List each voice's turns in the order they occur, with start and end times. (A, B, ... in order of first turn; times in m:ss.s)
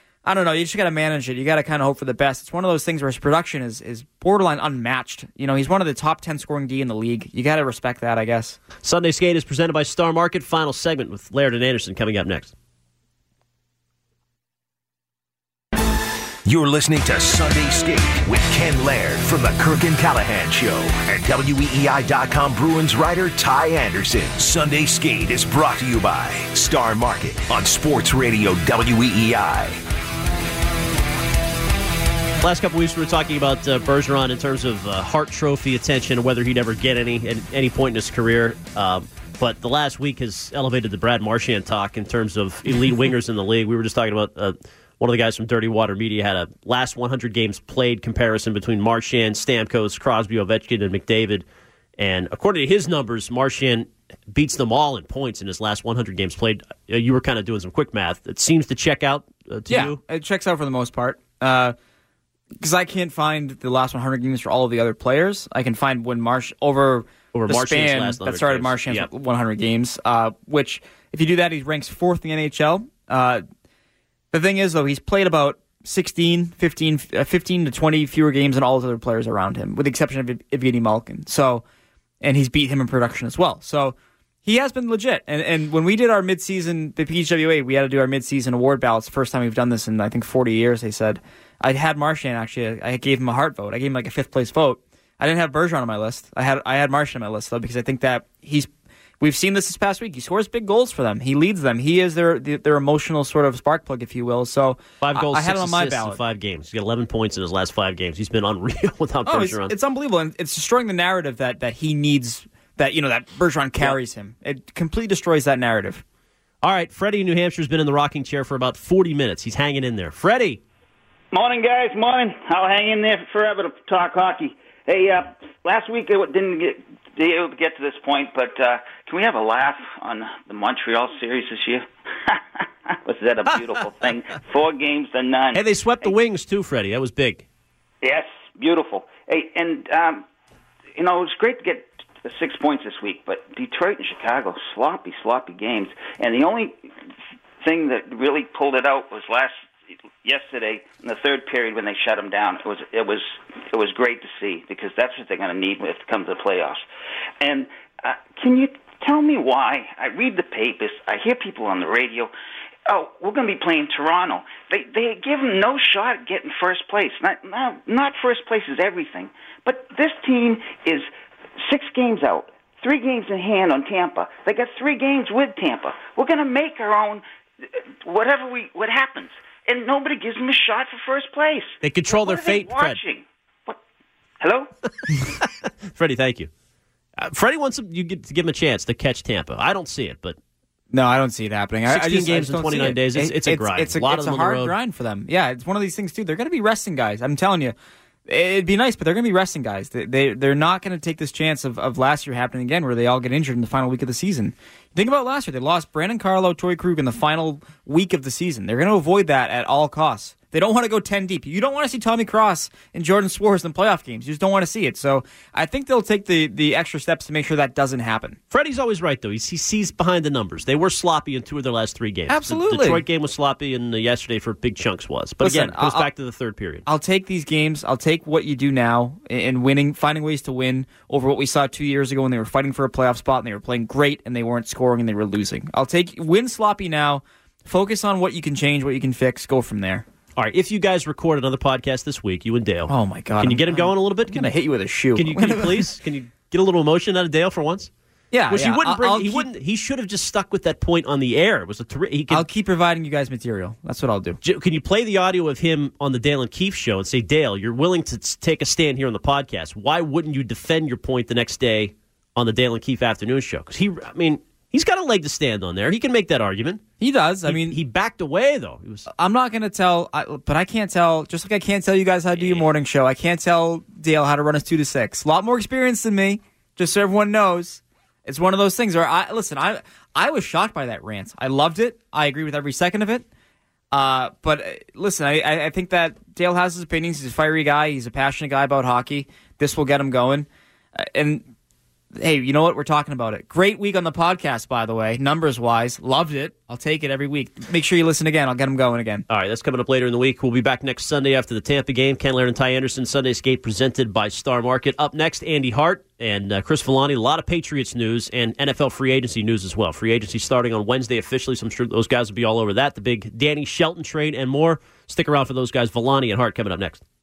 0:00.2-0:08.6 A
0:08.8-0:12.5 B
0:16.4-0:29.8 C
0:32.4-0:51.4 B
0:52.0-1:00.0 B
0:59.7-1:01.8 A
1:02.6-1:13.4 A
1:07.3-1:09.1 B
1:14.3-1:21.6 A
1:22.2-1:46.2 A
1:45.0-1:49.7 B
1:49.3-1:56.0 A
1:56.6-2:00.6 B
2:01.3-2:16.1 D
2:15.5-2:17.5 B
2:18.0-2:20.2 D
2:21.0-2:26.8 D
2:27.6-2:29.6 D
2:30.2-2:36.8 D
2:37.4-2:42.3 D
2:42.9-2:57.2 D
2:58.0-3:03.8 D
3:01.8-3:03.0 B
3:04.4-3:04.7 D
3:05.3-3:06.5 B
3:07.2-3:10.4 B
3:10.9-3:17.8 A
3:11.9-3:14.8 B
3:18.3-3:38.4 A
3:38.5-3:46.8 B
3:42.3-3:43.0 A
3:45.4-3:46.1 A
3:46.9-4:00.0 A
4:00.4-4:04.5 B
4:02.9-4:06.0 A
4:05.2-4:07.9 B
4:08.3-4:09.5 A
4:08.5-4:12.4 B
4:12.3-4:14.4 A
4:14.4-4:26.8 B
4:27.0-4:27.8 A
4:27.5-4:29.1 B
4:29.1-4:43.3 A
4:32.4-4:32.7 B
4:43.9-4:51.5 A
4:52.1-4:59.2 A
4:59.3-5:17.0 B